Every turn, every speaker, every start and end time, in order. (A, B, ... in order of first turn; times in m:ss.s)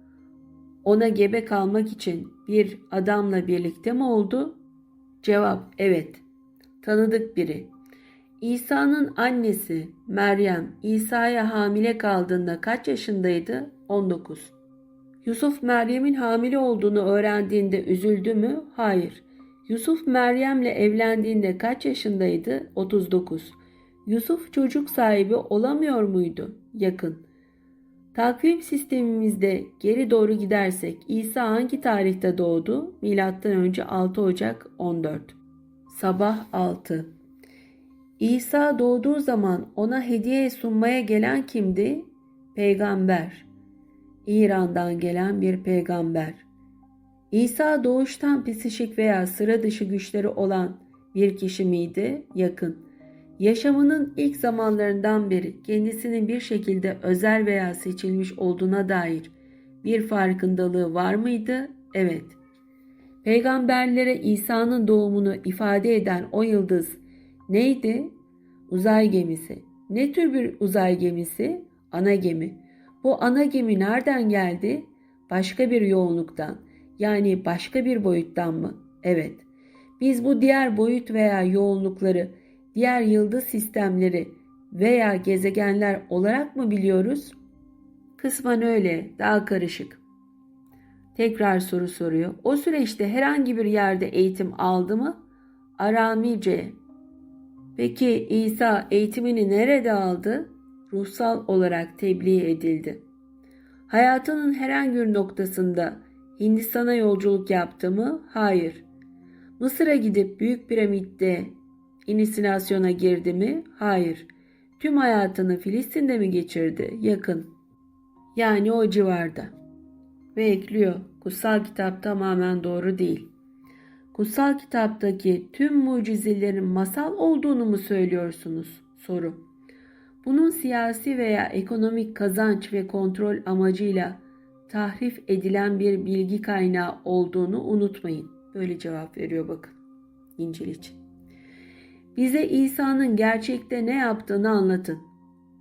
0:00.8-0:04.6 A
0:05.2-0:06.2 A
0:06.8-0:07.7 A
0:08.4-0:14.6 A
0:15.2-0:27.2 A
0:28.1-0:35.4 A
0:35.9-0:37.1 A
0:38.2-0:43.5 A
0:44.2-0:46.5 A
0:47.3-0:52.8 A
0:53.4-0:59.3 A
0:59.8-1:02.4 A
1:03.2-1:08.1 A
1:08.7-1:19.5 A
1:20.0-1:27.4 A
1:28.2-1:30.0 A
1:31.2-1:35.2 A
1:35.8-1:36.8 A
1:37.8-1:43.0 A
1:43.9-1:48.8 A
1:49.6-1:51.6 A
1:52.1-1:54.3 A
1:54.8-1:57.5 A
1:58.4-1:59.5 A
2:00.4-2:03.3 A
2:04.1-2:09.4 A
2:10.2-2:19.8 A
2:20.4-2:21.0 A
2:22.2-2:25.0 A